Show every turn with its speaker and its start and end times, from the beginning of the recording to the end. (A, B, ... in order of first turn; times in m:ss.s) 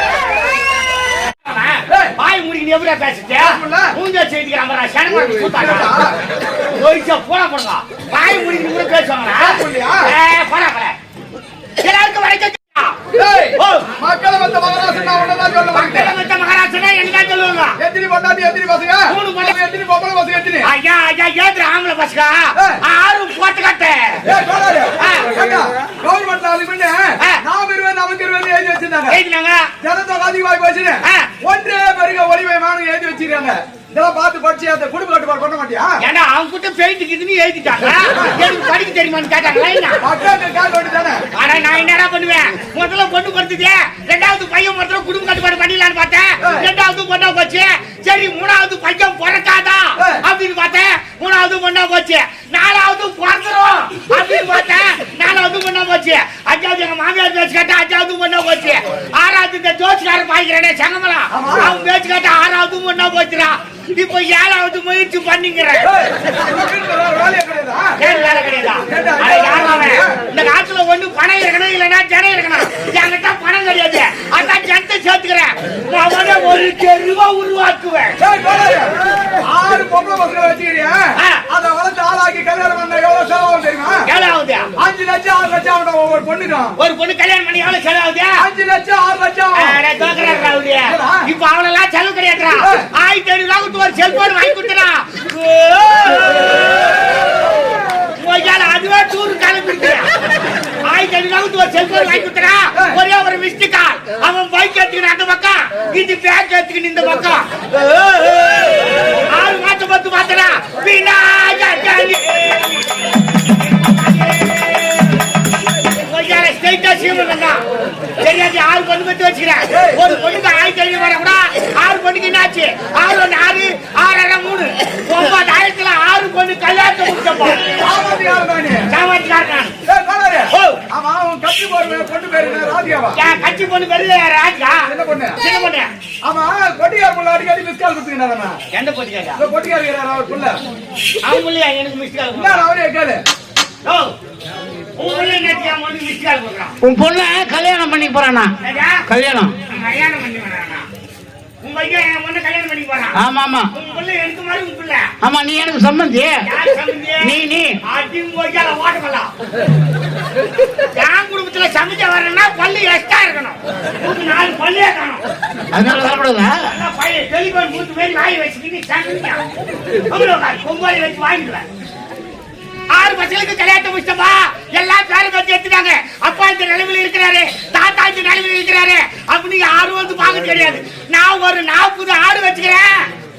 0:01.3-0:06.0 A
0:03.4-0:03.9 B
0:05.4-0:06.2 B
0:06.7-0:11.0 A
0:09.4-0:10.1 B
0:11.8-0:13.0 A
0:13.1-0:16.1 B
0:13.6-0:13.9 A
0:15.7-0:17.8 A
0:17.8-0:20.7 B
0:19.1-0:19.6 A
0:20.6-0:24.2 A
0:24.2-0:29.2 B
0:25.0-0:25.4 A
0:29.1-0:29.7 A
0:29.8-0:36.0 B
0:31.0-0:31.3 A
0:36.0-0:40.0 A
0:40.0-0:41.2 B
0:41.3-1:05.9 A
1:01.3-1:01.7 B
1:05.8-1:08.0 B
1:08.0-1:18.2 A
1:08.9-1:10.1 B
1:18.2-1:24.0 B
1:24.1-1:24.7 A
1:24.8-1:26.7 B
1:26.8-1:28.4 A
1:28.4-1:29.8 B
1:29.6-1:37.4 A
1:30.9-1:31.2 B
1:32.6-1:32.9 B
1:38.2-1:40.1 A
1:40.8-1:55.2 A
1:55.8-1:57.6 A
1:58.2-2:07.8 A
1:59.7-2:00.0 B
2:07.8-2:08.9 B
2:08.9-2:09.7 A
2:09.8-2:13.2 B
2:10.5-2:10.8 A
2:13.1-2:15.9 A
2:14.9-2:15.4 B
2:16.2-2:18.6 B
2:18.7-2:19.4 A
2:19.4-2:20.6 B
2:21.2-2:22.7 A
2:22.3-2:23.2 B
2:23.8-2:24.1 A
2:25.0-2:26.8 A
2:26.8-2:28.5 C
2:28.6-2:29.0 A
2:29.1-2:29.6 C
2:29.7-2:30.8 A
2:31.6-2:33.2 A
2:33.1-2:33.7 C
2:33.7-2:35.1 A
2:35.2-2:36.4 C
2:36.4-2:39.3 A
2:37.2-2:37.8 C
2:40.9-2:45.2 A
2:45.7-2:46.6 C
2:46.6-2:49.4 A
2:50.1-2:51.6 A
2:52.9-3:03.1 A